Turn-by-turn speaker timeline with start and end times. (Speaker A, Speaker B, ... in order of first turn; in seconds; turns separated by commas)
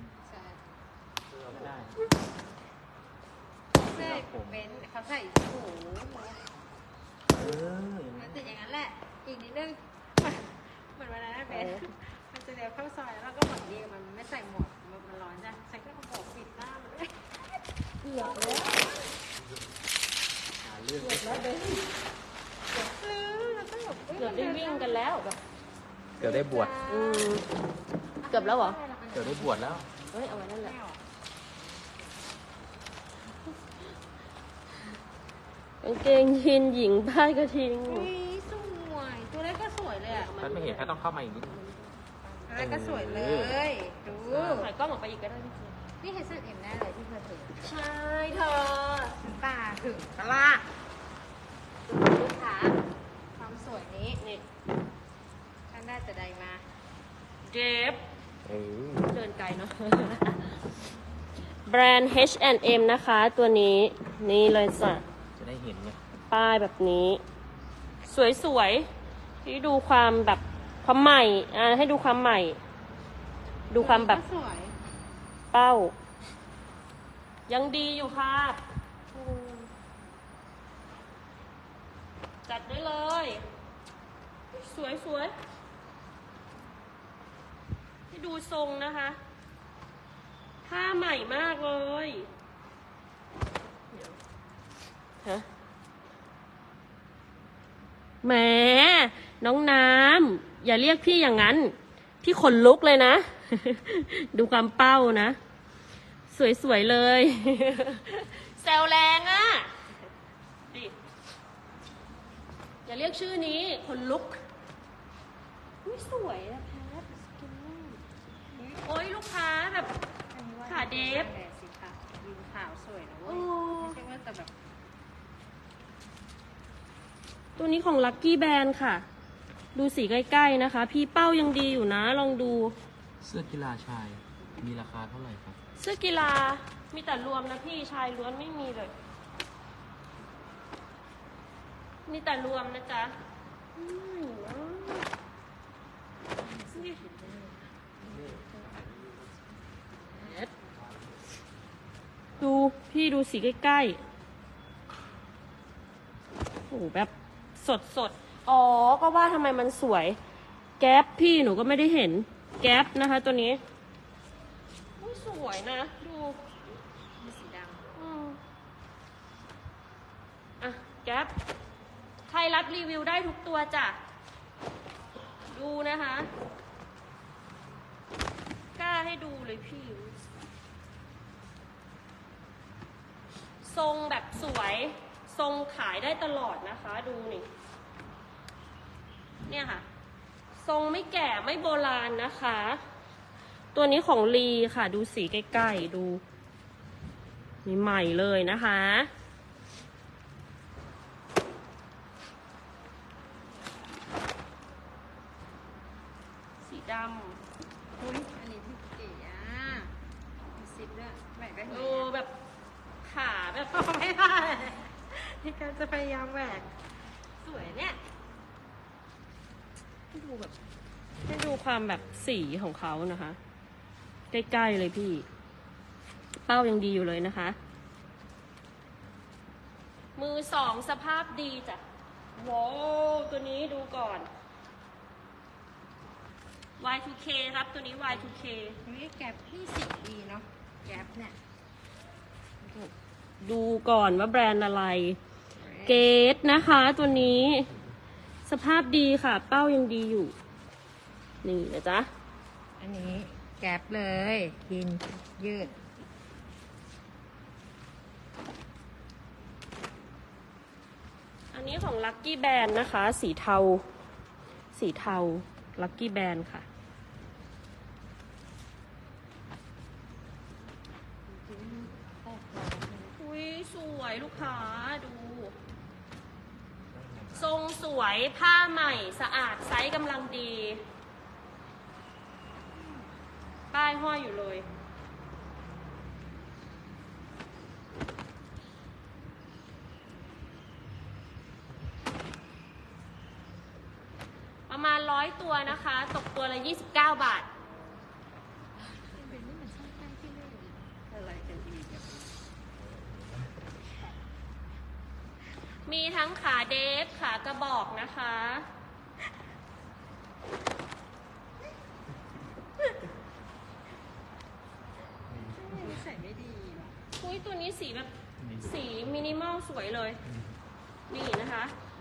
Speaker A: 0.2-0.6, Speaker B: 1.5-2.0, Speaker A: 3.8-6.5, Speaker B: 3.8-4.6, Speaker B: 7.3-8.4, Speaker A: 8.2-17.2, Speaker C: 11.5-11.8, Speaker C: 18.0-18.7, Speaker A: 18.1-18.9, Speaker B: 20.6-21.5, Speaker C: 21.0-21.8, Speaker A: 22.8-25.4, Speaker C: 24.1-25.3, Speaker A: 26.2-27.4, Speaker B: 26.2-26.8, Speaker C: 26.9-27.4, Speaker A: 28.2-29.9, Speaker C: 28.3-28.8, Speaker B: 29.1-29.9, Speaker C: 30.1-30.7, Speaker A: 30.5-31.0, Speaker C: 35.8-38.1, Speaker A: 37.8-40.3, Speaker C: 40.1-42.1, Speaker B: 40.4-41.6, Speaker A: 42.4-44.7, Speaker B: 42.5-43.6, Speaker C: 44.1-45.9, Speaker A: 46.0-47.8, Speaker C: 47.6-49.2, Speaker A: 49.1-50.3, Speaker C: 50.2-50.6, Speaker C: 51.9-52.7, Speaker A: 53.4-54.2, Speaker A: 55.7-56.6, Speaker C: 57.5-58.0, Speaker B: 58.5-59.1, Speaker C: 59.1-60.6, Speaker C: 61.7-65.0, Speaker B: 65.3-66.0, Speaker C: 66.3-67.2, Speaker C: 68.0-68.9, Speaker C: 69.4-72.6, Speaker C: 73.7-74.2, Speaker A: 73.8-74.8, Speaker C: 75.5-75.9, Speaker C: 77.5-78.6, Speaker C: 79.1-79.7, Speaker C: 82.5-83.4, Speaker C: 84.5-85.3, Speaker C: 88.1-89.2, Speaker C: 90.7-92.3, Speaker C: 93.9-94.2, Speaker C: 98.2-105.4, Speaker C: 106.3-109.7, Speaker C: 112.9-114.4, Speaker C: 115.8-118.0, Speaker A: 118.5-118.8, Speaker C: 118.8-119.9, Speaker A: 120.3-124.5, Speaker C: 120.7-121.3, Speaker C: 123.2-124.0, Speaker C: 127.6-129.1, Speaker C: 129.8-132.8, Speaker B: 133.2-135.6, Speaker C: 135.8-138.9, Speaker C: 142.1-143.2, Speaker C: 143.8-145.1, Speaker A: 146.4-148.7, Speaker C: 146.7-147.0, Speaker B: 148.1-149.1, Speaker C: 152.4-154.0, Speaker C: 156.7-160.2, Speaker C: 160.8-163.6, Speaker C: 165.0-166.4, Speaker A: 167.2-167.9, Speaker C: 168.0-168.4, Speaker C: 170.6-171.3, Speaker C: 172.3-174.0, Speaker C: 175.5-176.3, Speaker C: 178.8-180.2, Speaker C: 183.6-187.5, Speaker C: 189.5-189.8, Speaker C: 190.6-192.8, Speaker C: 193.8-196.2, Speaker C: 197.7-199.1, Speaker C: 206.6-207.4, Speaker A: 208.0-209.9, Speaker A: 210.6-212.1, Speaker C: 211.7-212.3, Speaker C: 213.0-213.8, Speaker A: 213.7-216.7, Speaker A: 217.4-218.0, Speaker C: 220.1-220.5, Speaker C: 221.2-223.4, Speaker C: 224.3-225.2, Speaker C: 226.5-227.6, Speaker C: 230.2-231.8, Speaker C: 232.4-234.3, Speaker C: 236.8-238.8, Speaker A: 238.8-241.4, Speaker C: 242.6-245.2, Speaker A: 245.6-246.1, Speaker C: 245.8-247.7, Speaker C: 248.5-250.3, Speaker C: 251.4-252.1, Speaker A: 252.8-255.8, Speaker C: 261.5-263.8, Speaker C: 264.7-266.6, Speaker A: 271.3-273.2, Speaker C: 273.2-275.5, Speaker B: 276.9-277.5, Speaker C: 277.3-280.8, Speaker C: 283.7-284.7, Speaker C: 294.7-297.5, Speaker A: 299.0-301.8, Speaker C: 305.9-308.7, Speaker B: 315.3-316.0, Speaker A: 315.4-317.0, Speaker C: 317.2-320.2, Speaker B: 318.4-318.8, Speaker C: 321.1-321.7